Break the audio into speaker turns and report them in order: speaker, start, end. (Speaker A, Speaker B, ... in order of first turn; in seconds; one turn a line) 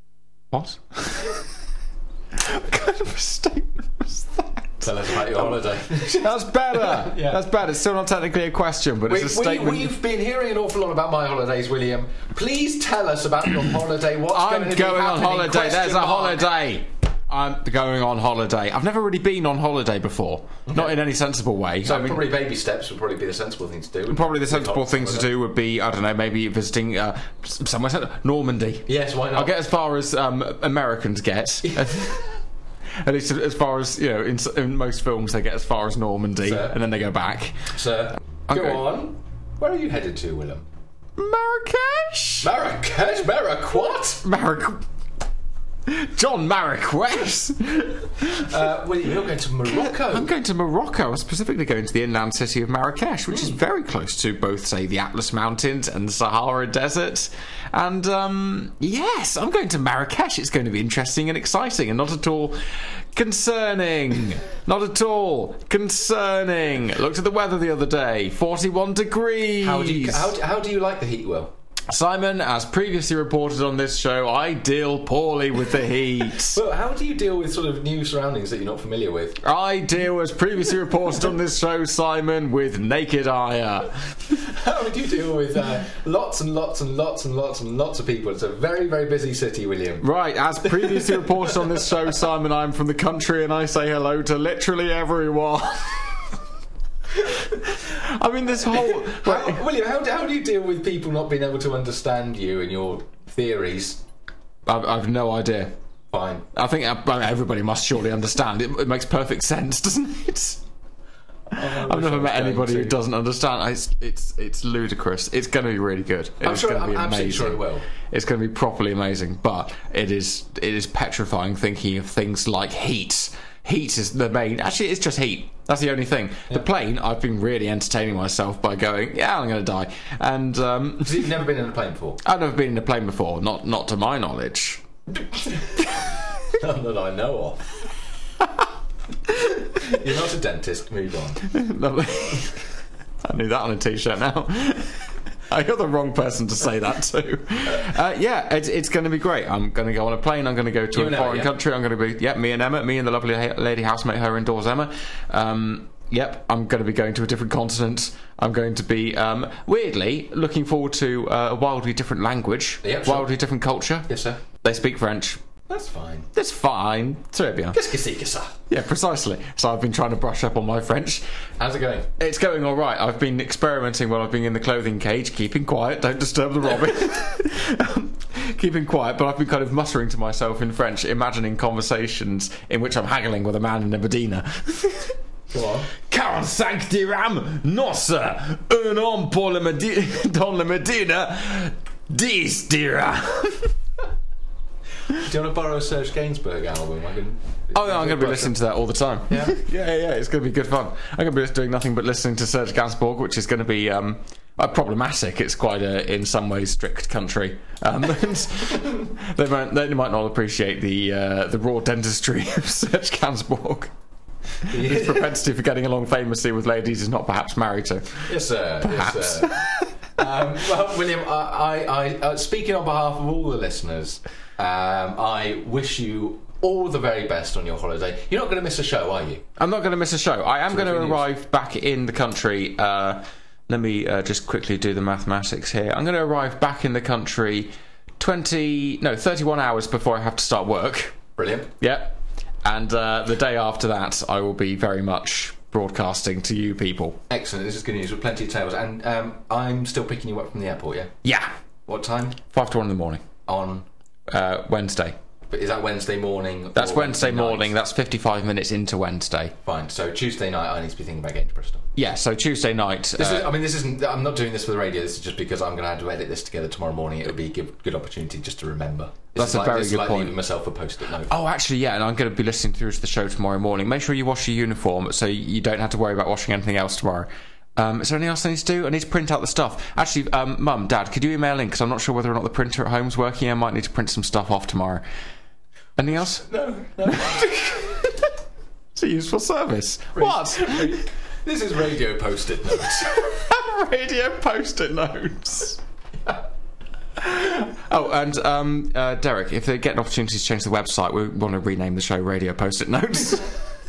Speaker A: 0.5-1.4
Speaker A: 2.4-9.9
Speaker B: 4.8-7.5
Speaker B: 9.1-16.5
Speaker A: 14.3-22.2
Speaker B: 20.7-21.0
Speaker B: 21.8-25.3
Speaker A: 24.1-32.3
Speaker B: 28.9-29.6
Speaker B: 31.6-32.3
Speaker A: 33.0-37.7
Speaker B: 36.4-36.8
Speaker B: 37.7-40.7
Speaker A: 38.5-38.9
Speaker A: 41.2-42.5
Speaker B: 42.4-44.2
Speaker A: 44.2-44.8
Speaker A: 45.9-48.5
Speaker B: 48.3-50.3
Speaker A: 49.7-70.3
Speaker B: 53.3-53.6
Speaker B: 69.6-71.5
Speaker A: 71.9-76.6
Speaker B: 76.3-79.4
Speaker A: 79.4-84.2
Speaker B: 84.4-90.1
Speaker A: 90.0-96.2
Speaker B: 90.6-91.9
Speaker A: 97.5-99.6
Speaker B: 98.6-104.0
Speaker A: 104.7-105.7
Speaker B: 106.1-106.5
Speaker A: 106.5-110.6
Speaker B: 111.5-113.0
Speaker A: 111.6-131.3
Speaker B: 116.4-117.8
Speaker B: 131.0-132.2
Speaker A: 132.2-134.8
Speaker B: 135.2-135.9
Speaker B: 136.5-137.6
Speaker B: 139.8-141.5
Speaker A: 141.5-142.6
Speaker A: 143.2-164.1
Speaker B: 150.9-151.5
Speaker B: 162.8-163.3
Speaker B: 164.1-164.4
Speaker A: 164.6-165.4
Speaker B: 165.7-166.3
Speaker A: 166.3-167.8
Speaker B: 167.7-168.6
Speaker A: 168.7-171.2
Speaker B: 171.6-172.1
Speaker A: 172.2-185.2
Speaker B: 185.5-185.9
Speaker A: 186.0-193.7
Speaker B: 195.1-198.6
Speaker A: 197.7-213.9
Speaker B: 199.3-199.6
Speaker A: 214.7-218.3
Speaker B: 214.7-215.3
Speaker B: 218.3-229.4
Speaker A: 218.8-219.9
Speaker A: 229.6-241.2
Speaker B: 230.7-231.3
Speaker B: 241.4-241.7
Speaker A: 241.8-247.2
Speaker B: 247.3-251.1
Speaker A: 251.2-251.5
Speaker B: 251.9-252.4
Speaker A: 252.5-253.2
Speaker B: 253.5-253.9
Speaker A: 254.3-255.2
Speaker B: 255.5-257.7
Speaker A: 256.8-259.6
Speaker B: 259.6-261.9
Speaker A: 262.0-263.5
Speaker B: 263.2-271.3
Speaker A: 269.4-270.4
Speaker A: 271.3-285.0
Speaker A: 286.0-286.5
Speaker B: 286.2-287.9
Speaker A: 287.1-288.1
Speaker A: 288.9-291.0
Speaker B: 290.1-293.2
Speaker A: 293.0-295.8
Speaker A: 297.2-303.5